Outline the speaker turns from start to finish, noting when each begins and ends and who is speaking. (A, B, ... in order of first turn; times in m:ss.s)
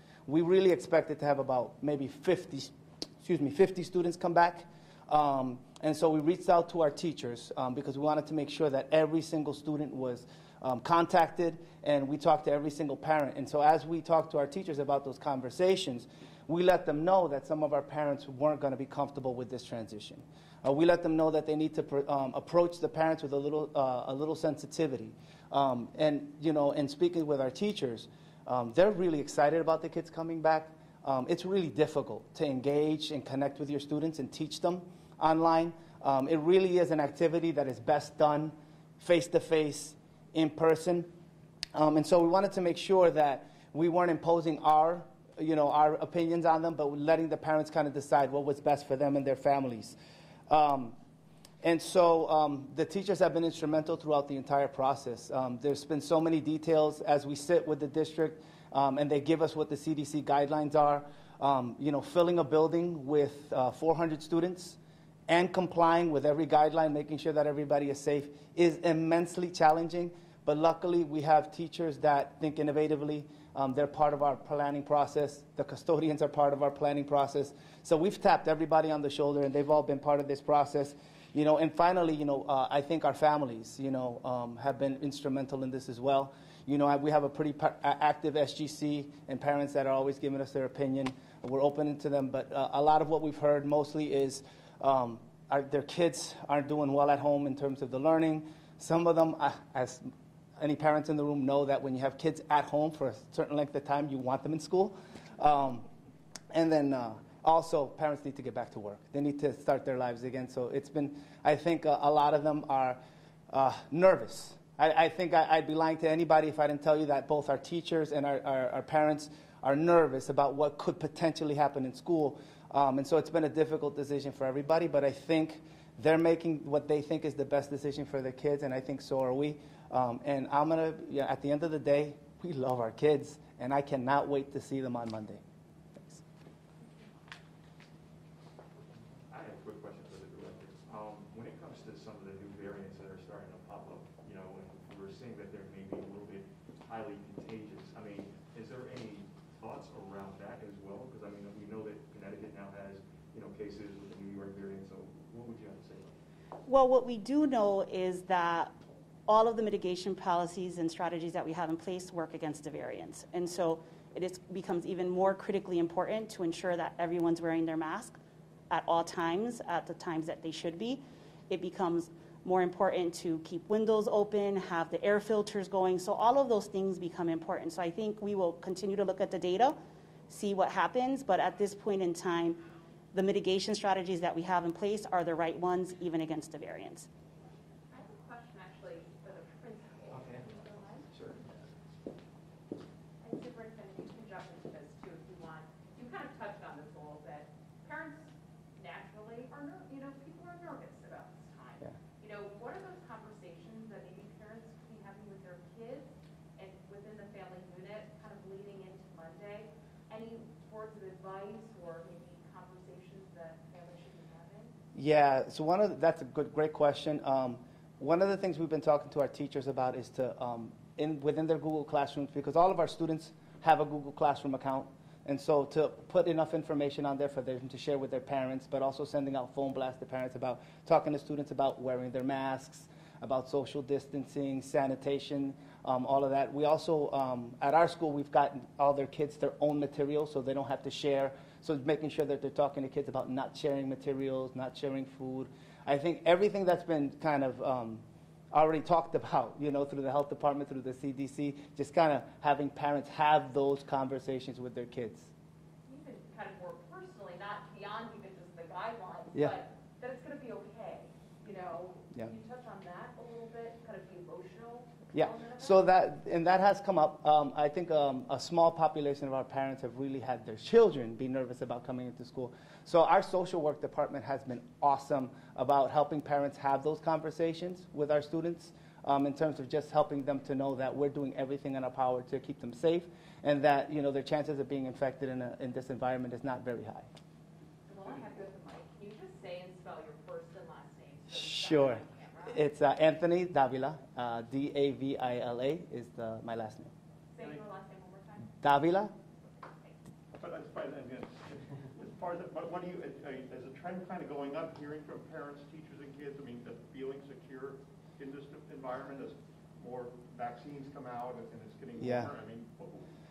0:00.3-0:41.1 A
0:41.7-0:50.0 A
0:50.5-0:51.0 A
0:51.6-1:40.1 A
1:40.6-1:45.8 A
1:46.5-2:15.4 A
2:19.3-2:36.2 B
2:36.7-2:38.7 C
2:39.3-2:48.2 C
2:48.7-2:59.8 C
3:00.3-3:02.6 C
3:03.1-3:07.1 C
3:07.9-3:11.2 D
3:10.1-3:10.5 B
3:11.1-3:11.5 B
3:13.2-3:34.7 D
3:35.0-4:15.3 A
4:15.9-4:25.9 D
4:25.1-4:47.1 A
4:47.9-4:52.6 D
4:51.3-4:56.9 A
4:57.3-4:58.9 D
4:58.6-4:59.1 A
4:59.5-5:00.0 D
5:00.4-5:13.1 E
5:12.0-5:12.3 A